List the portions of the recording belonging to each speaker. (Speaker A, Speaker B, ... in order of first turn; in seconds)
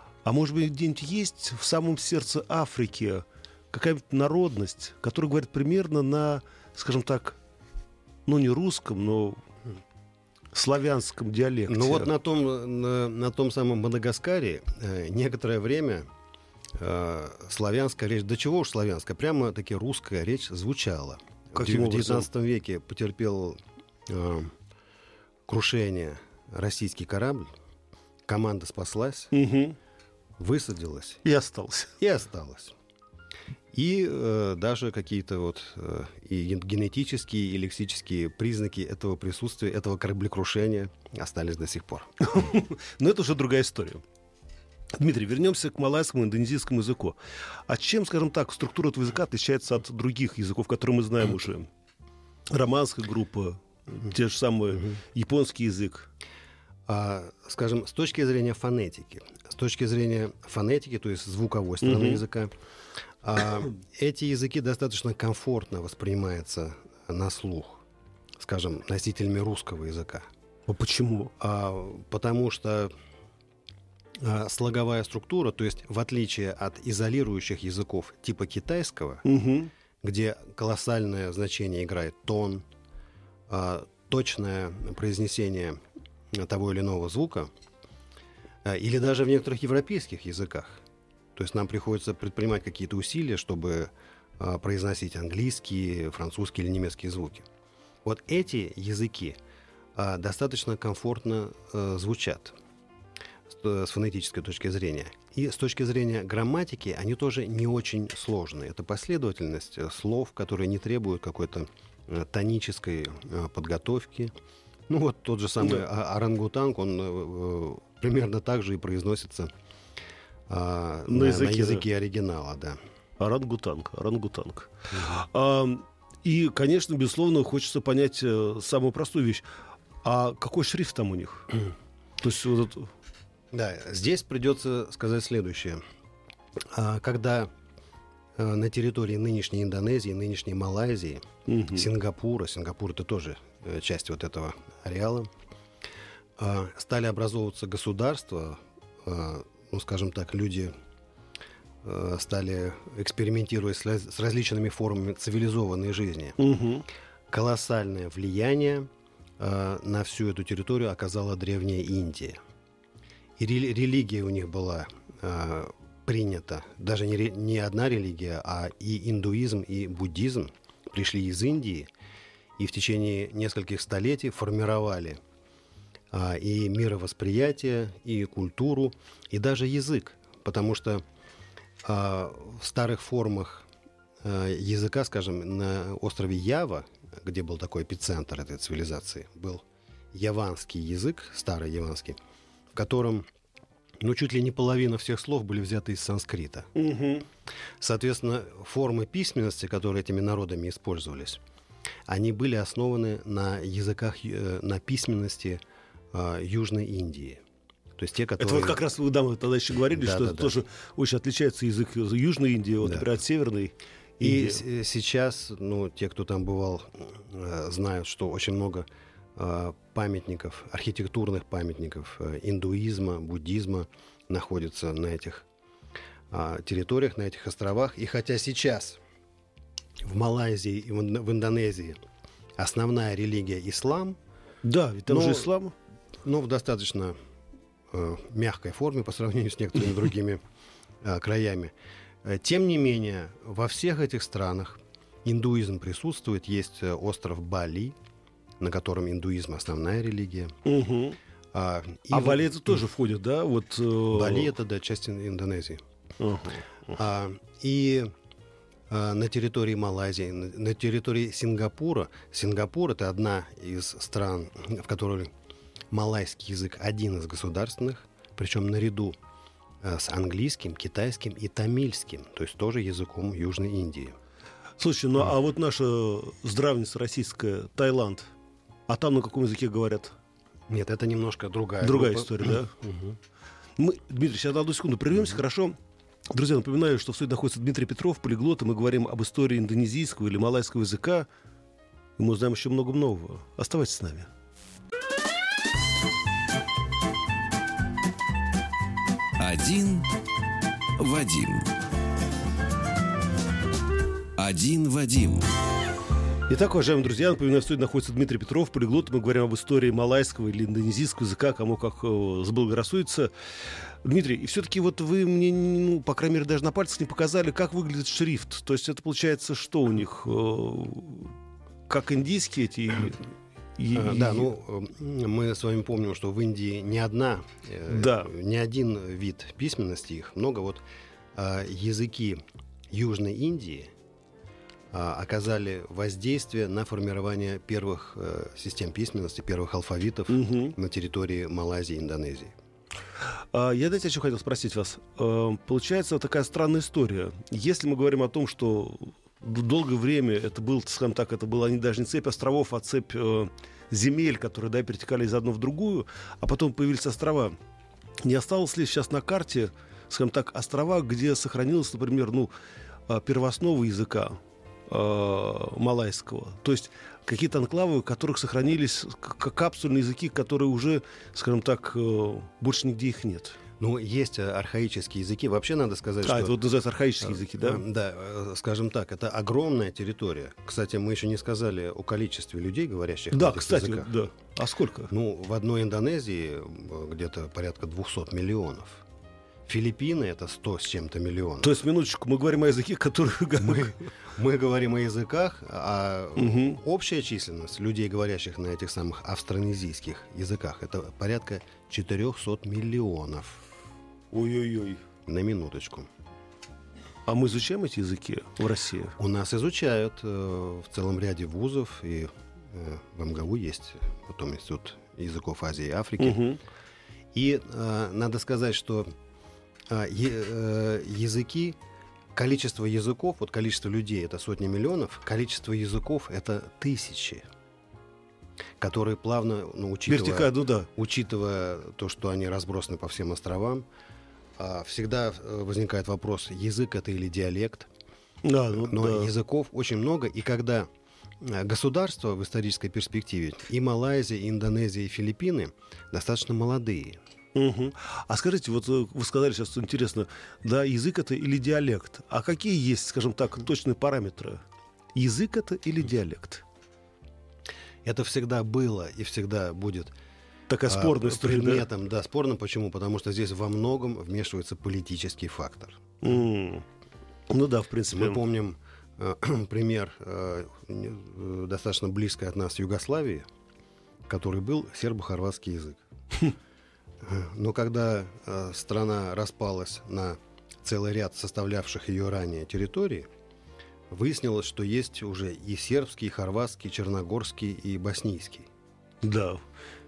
Speaker A: 0.2-7.4, 8.2-9.4, 10.5-12.1, 21.5-22.3, 29.3-29.8, 31.2-31.9, 42.2-44.0, 45.0-47.1, 47.7-51.7, 52.5-56.1, 61.8-62.2, 70.7-71.3, 79.2-79.7, 121.1-121.8, 123.2-129.4, 130.0-131.6, 132.2-132.9, 141.5-141.9, 156.4-156.8, 196.7-197.2, 208.4-214.6, 234.6-235.7, 250.6-251.2, 252.1-254.5, 256.2-256.9, 274.8-278.3, 278.9-280.1, 281.8-282.7, 283.8-285.8, 286.3-291.3, 292.2-294.3, 306.5-313.3, 314.0-321.3, 321.9-324.5, 327.9-328.3, 340.3-340.8, 343.5-357.6, 358.2-362.5, 363.1-373.6, 376.2-377.8, 383.3-385.1, 391.6-394.0, 396.4-396.8, 404.3-405.0, 407.2-409.1, 416.2-416.6, 430.1-430.9, 438.4-439.3, 447.5-454.6, 455.1-456.6, 460.7-461.8, 466.2-466.8, 467.5-468.4, 489.2-489.6
Speaker B: 11.7-16.1, 16.8-24.5, 25.5-27.5, 28.2-29.3, 30.4-31.2, 32.0-32.8, 33.7-42.5, 56.9-62.5, 63.2-67.8, 68.4-70.3, 71.4-72.9, 74.2-79.2, 80.0-82.7, 83.5-85.8, 86.3-87.5, 88.6-90.8, 91.3-97.5, 98.0-99.4, 99.9-102.5, 103.5-114.3, 114.9-119.5, 120.5-122.8, 133.5-135.8, 136.7-137.5, 138.4-145.3, 146.4-150.7, 151.8-156.4, 157.3-162.4, 163.4-171.9, 172.6-175.2, 176.1-181.0, 181.8-183.7, 184.2-192.2, 192.7-193.3, 194.0-196.7, 197.8-201.4, 202.1-205.6, 206.1-207.4, 207.9-208.8, 209.9-210.6, 212.8-213.1, 214.2-225.4, 226.3-229.0, 230.0-232.0, 232.6-234.2, 235.1-235.5, 236.2-237.2, 237.9-240.4, 241.0-241.7, 242.2-247.9, 248.6-250.6, 251.5-252.7, 254.1-255.8, 256.9-258.1, 258.9-265.3, 265.9-269.1, 269.8-274.1, 280.7-283.2, 323.9-330.8, 331.3-333.9, 334.9-342.6, 373.8-376.6, 377.3-384.2, 385.1-389.0, 389.6-391.7, 393.6-403.6, 405.3-406.1, 409.2-416.5, 417.3-419.1, 419.9-421.8, 422.3-427.4, 428.8-433.9, 434.6-437.9, 438.7-440.9, 441.4-447.2, 458.0-460.1, 460.9-466.2, 468.1-473.4, 474.3-476.0, 477.2-483.3, 484.1-488.7
Speaker C: 299.4-300.1, 301.0-301.7, 304.4-305.5